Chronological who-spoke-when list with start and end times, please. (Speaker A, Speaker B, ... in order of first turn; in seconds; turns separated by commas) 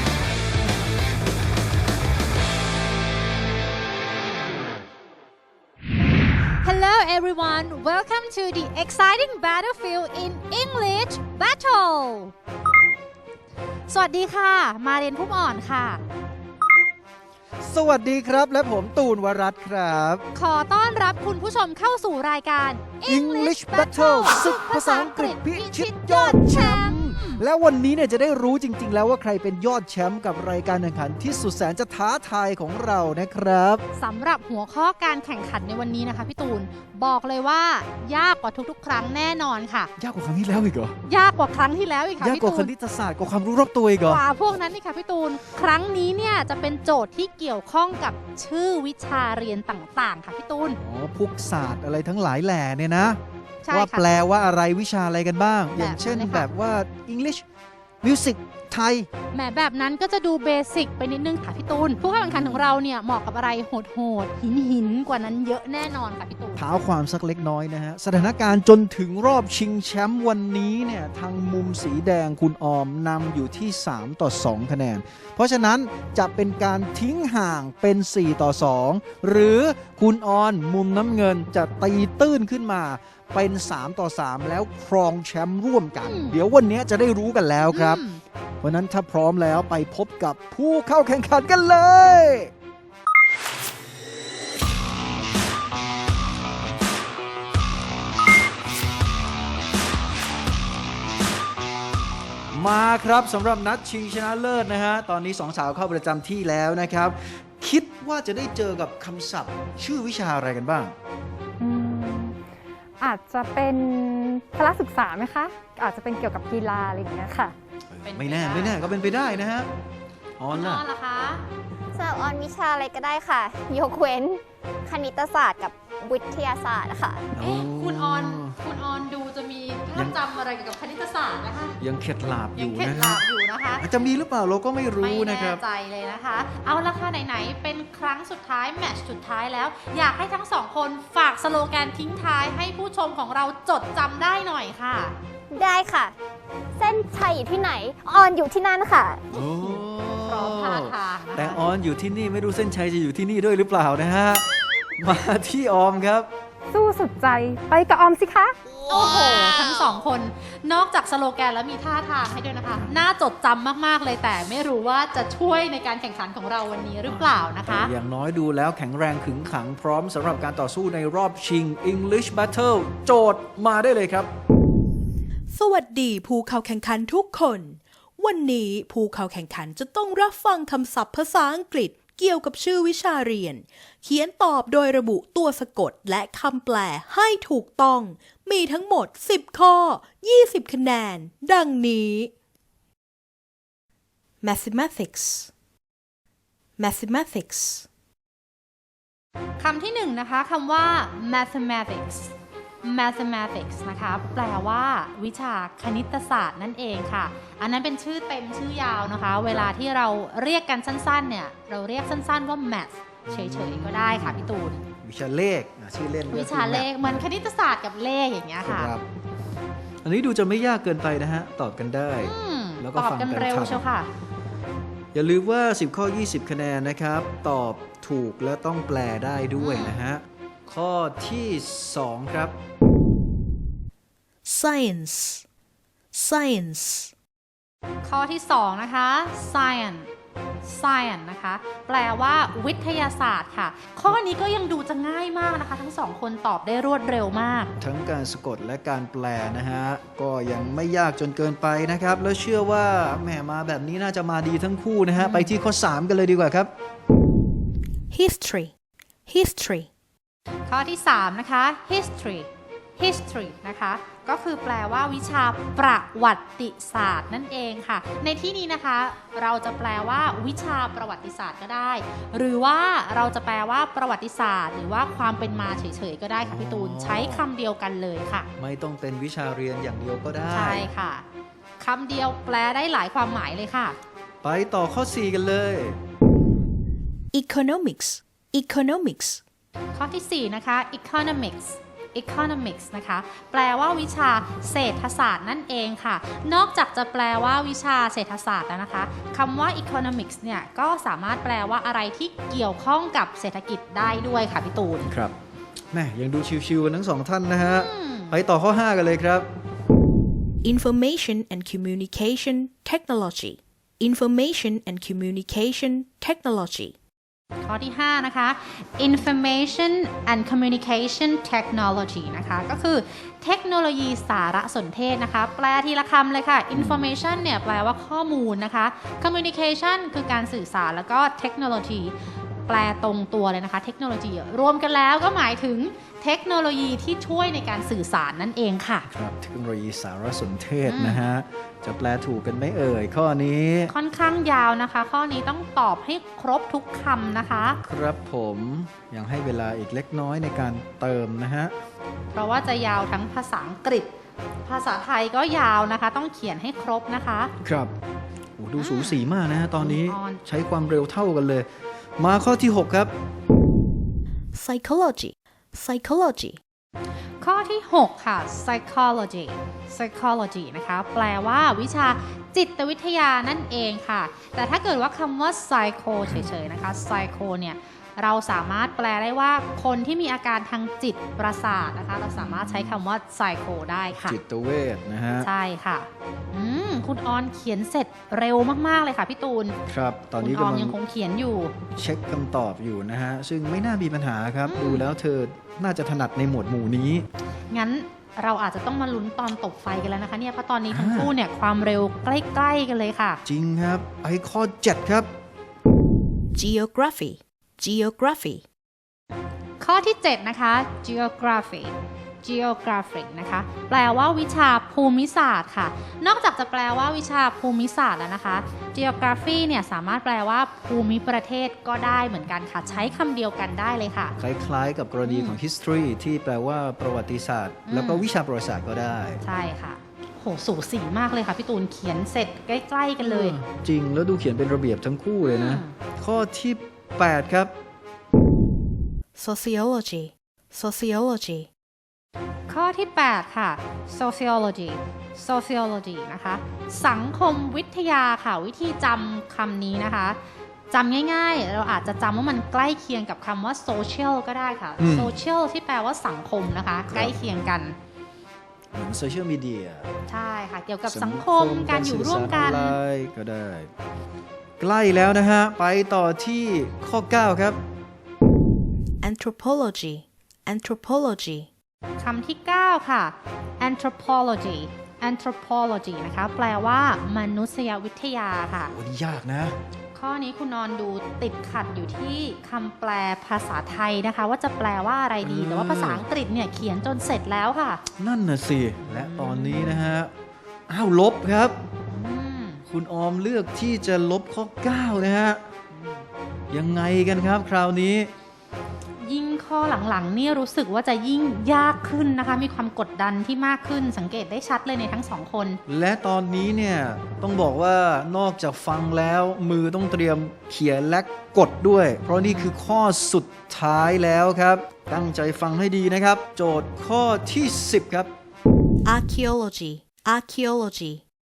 Speaker A: 6.6-12.3, Speaker A: 13.9-16.0, Speaker B: 17.6-20.2, Speaker A: 20.3-27.4, Speaker B: 23.1-33.8, Speaker A: 34.0-39.9, Speaker B: 40.0-41.0, Speaker A: 41.0-42.7, Speaker B: 42.2-44.2, Speaker A: 44.1-50.8, Speaker B: 50.8-53.2, Speaker A: 53.6-54.1, Speaker B: 53.7-57.4, Speaker A: 55.8-56.5, Speaker B: 58.0-59.1, Speaker A: 59.3-66.6, Speaker B: 62.0-62.8, Speaker B: 66.6-88.0, Speaker A: 86.0-86.4, Speaker A: 87.7-88.2, Speaker B: 88.6-92.5, Speaker B: 102.5-110.9, Speaker C: 111.6-112.3, Speaker C: 113.0-117.5, Speaker B: 117.9-119.7, Speaker A: 118.0-119.5, Speaker B: 120.4-120.8, Speaker A: 120.5-121.4, Speaker D: 121.9-127.3, Speaker B: 127.3-128.6, Speaker A: 127.4-131.8, Speaker B: 131.8-133.2, Speaker A: 132.6-133.9, Speaker B: 133.8-135.6, Speaker A: 135.0-145.2, Speaker D: 145.5-146.2, Speaker D: 146.8-149.3, Speaker B: 149.3-154.4, Speaker A: 149.3-151.6, Speaker B: 155.0-156.3, Speaker C: 156.7-158.6, Speaker A: 158.9-167.9, Speaker B: 162.7-163.0, Speaker B: 167.0-174.3, Speaker E: 175.5-192.3, Speaker E: 194.4-195.5, Speaker E: 196.8-197.8, Speaker A: 199.6-214.8, Speaker B: 213.3-214.4, Speaker B: 215.0-217.3, Speaker A: 216.3-218.9, Speaker B: 218.6-219.0, Speaker B: 220.0-223.8, Speaker A: 222.2-224.1, Speaker B: 225.1-232.5, Speaker A: 229.5-230.0, Speaker E: 234.4-235.4, Speaker E: 236.1-237.1, Speaker A: 238.0-240.1, Speaker A: 240.6-247.7, Speaker B: 247.8-256.7, Speaker A: 255.2-255.6, Speaker E: 258.1-258.7, Speaker E: 259.3-259.9, Speaker A: 260.7-278.5, Speaker B: 276.4-277.5, Speaker B: 278.6-280.9, Speaker A: 280.5-281.2, Speaker A: 281.8-284.0, Speaker B: 284.4-286.0, Speaker E: 287.3-289.4, Speaker A: 289.9-305.1, Speaker B: 305.0-305.4, Speaker B: 305.9-309.5, Speaker A: 307.7-308.4, Speaker E: 310.6-316.9, Speaker A: 317.6-339.1, Speaker B: 326.7-327.1, Speaker B: 339.1-343.9, Speaker A: 340.9-341.2, Speaker A: 343.9-347.8, Speaker B: 347.8-351.8, Speaker A: 352.3-354.1, Speaker A: 354.6-357.5, Speaker B: 357.6-357.9, Speaker B: 358.6-363.1, Speaker A: 358.8-359.2, Speaker A: 359.8-360.4, Speaker E: 364.5-366.6, Speaker A: 367.4-384.4, Speaker B: 382.4-383.0, Speaker B: 384.1-385.5, Speaker A: 385.4-389.8, Speaker B: 389.9-391.0, Speaker A: 390.4-391.8, Speaker B: 391.9-397.2, Speaker A: 394.7-395.1, Speaker A: 397.7-403.4, Speaker B: 400.9-401.4, Speaker B: 403.4-405.3, Speaker E: 406.6-408.6, Speaker A: 409.8-424.4, Speaker B: 422.8-423.2, Speaker B: 424.4-429.4, Speaker A: 425.2-425.6, Speaker A: 427.9-428.3, Speaker A: 429.4-433.6, Speaker B: 433.2-437.7, Speaker A: 435.4-435.9, Speaker E: 439.4-441.7, Speaker A: 442.7-457.9, Speaker B: 455.0-455.4, Speaker B: 457.1-457.4, Speaker B: 458.9-460.1, Speaker A: 460.3-463.0, Speaker B: 461.1-463.9, Speaker B: 464.8-467.8, Speaker E: 469.2-471.7, Speaker A: 472.2-478.9, Speaker B: 478.8-479.8, Speaker A: 480.1-488.0, Speaker B: 485.4-486.2, Speaker B: 488.1-490.3, Speaker A: 489.0-490.0, Speaker B: 490.9-491.8, Speaker A: 492.1-492.8, Speaker B: 492.9-495.6, Speaker A: 495.9-496.2, Speaker B: 496.7-498.3, Speaker A: 499.2-505.8, Speaker B: 505.9-518.3, Speaker A: 512.2-512.7, Speaker E: 519.0-521.2